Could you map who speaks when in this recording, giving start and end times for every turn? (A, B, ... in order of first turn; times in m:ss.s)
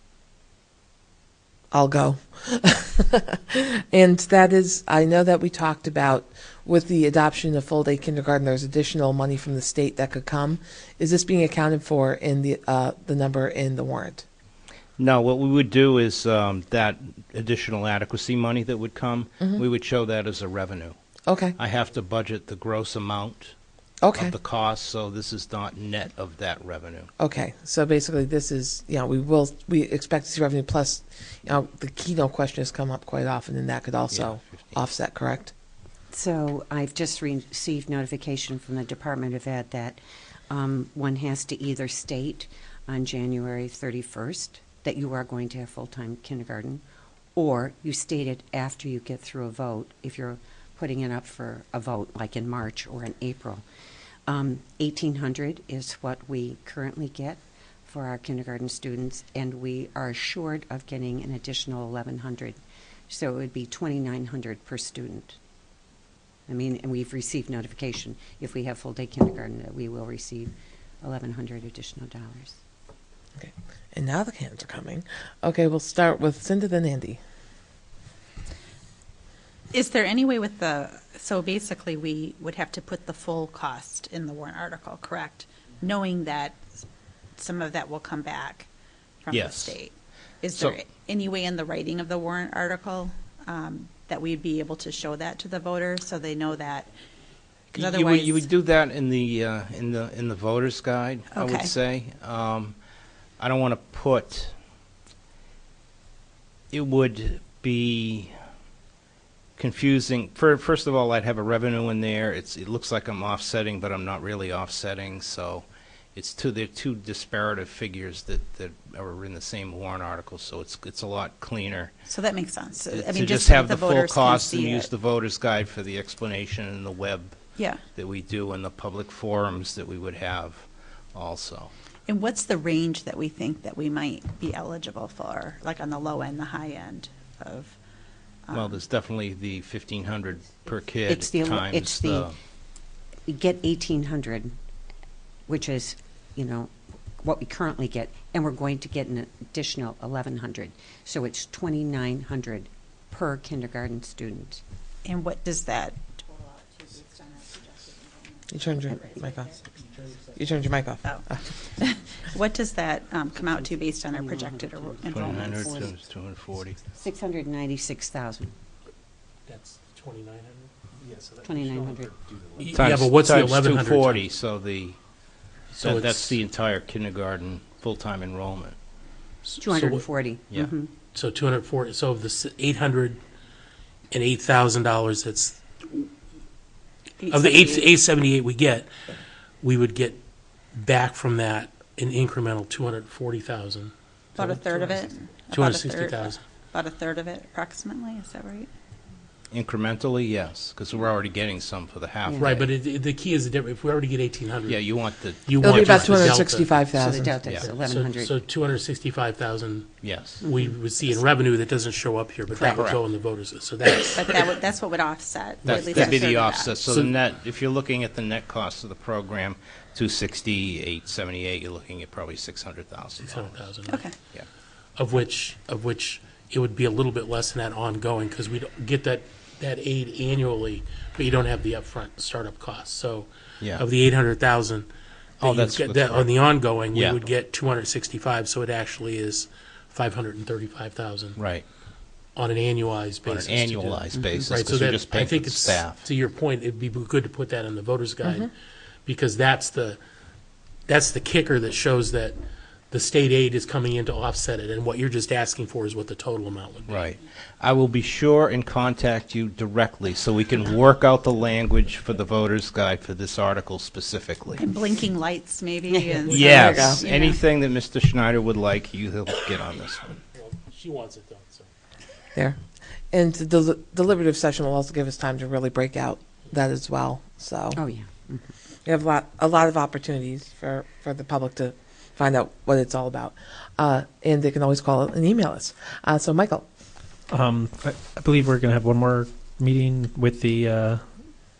0:01.7-0:14.2 A
0:15.0-0:21.0 B
0:21.3-0:21.6 A
0:21.6-0:23.5 B
0:24.0-0:24.3 A
0:24.1-0:27.1 B
0:27.2-0:35.5 A
0:34.1-0:34.7 B
0:36.1-0:40.0 C
0:40.5-0:46.8 C
0:47.4-0:53.6 C
0:54.3-1:02.6 C
1:03.1-1:05.4 C
1:06.5-1:12.6 C
1:13.4-1:17.2 A
1:19.7-1:26.6 D
1:27.4-1:28.7 D
1:29.2-1:36.9 D
1:29.3-1:29.8 B
1:37.7-1:38.4 D
1:37.7-1:42.8 B
1:41.3-1:41.7 D
1:43.4-1:44.5 B
1:46.7-1:48.3 B
1:49.6-2:01.9 B
2:02.1-2:04.9 D
2:02.9-2:07.4 B
2:07.6-2:07.8 D
2:07.9-2:11.7 B
2:12.1-2:17.8 D
2:18.5-2:18.8 D
2:18.5-2:22.4 B
2:21.1-2:22.3 C
2:23.3-2:24.5 C
2:25.5-2:34.6 C
2:35.0-2:39.7 D
2:38.5-2:39.5 A
2:39.8-2:40.3 E
2:40.4-2:41.5 A
2:41.0-2:45.7 D
2:43.3-2:46.0 C
2:45.1-2:46.8 B
2:46.9-2:48.5 C
2:49.5-2:54.2 E
2:51.4-2:52.7 C
2:52.7-2:55.0 B
2:55.7-2:56.4 E
2:55.8-2:58.8 B
2:59.6-3:00.9 C
2:59.6-3:00.0 E
3:01.1-3:03.2 E
3:04.1-3:06.1 E
3:07.2-3:07.9 D
3:07.3-3:08.9 E
3:09.6-3:10.2 E
3:10.7-3:16.4 E
3:14.4-3:18.7 D
3:19.5-3:22.7 B
3:22.2-3:22.6 C
3:22.4-3:24.9 E
3:24.7-3:26.4 B
3:25.4-3:26.7 E
3:25.6-3:27.3 A
3:26.9-3:28.3 C
3:27.4-3:34.6 E
3:30.0-3:30.4 B
3:32.7-3:33.0 B
3:34.1-3:36.8 D
3:35.6-3:36.2 E
3:35.7-3:43.6 B
3:36.8-3:37.1 E
3:43.2-3:44.1 E
3:45.0-3:54.9 E
3:55.4-3:56.3 B
3:55.4-4:01.4 E
3:56.9-3:57.2 B
4:01.4-4:01.6 B
4:02.3-4:08.5 E
4:03.2-4:06.0 B
4:09.0-4:10.0 E
4:10.9-4:12.4 E
4:12.9-4:17.1 E
4:16.9-4:24.6 B
4:24.6-4:27.4 D
4:25.9-4:26.2 C
4:26.3-4:27.0 E
4:26.3-4:30.2 B
4:26.4-4:27.0 A
4:30.3-4:31.7 E
4:32.3-4:32.6 A
4:33.1-4:37.8 A
4:37.8-4:38.5 C
4:38.8-4:46.6 A
4:47.3-4:51.0 F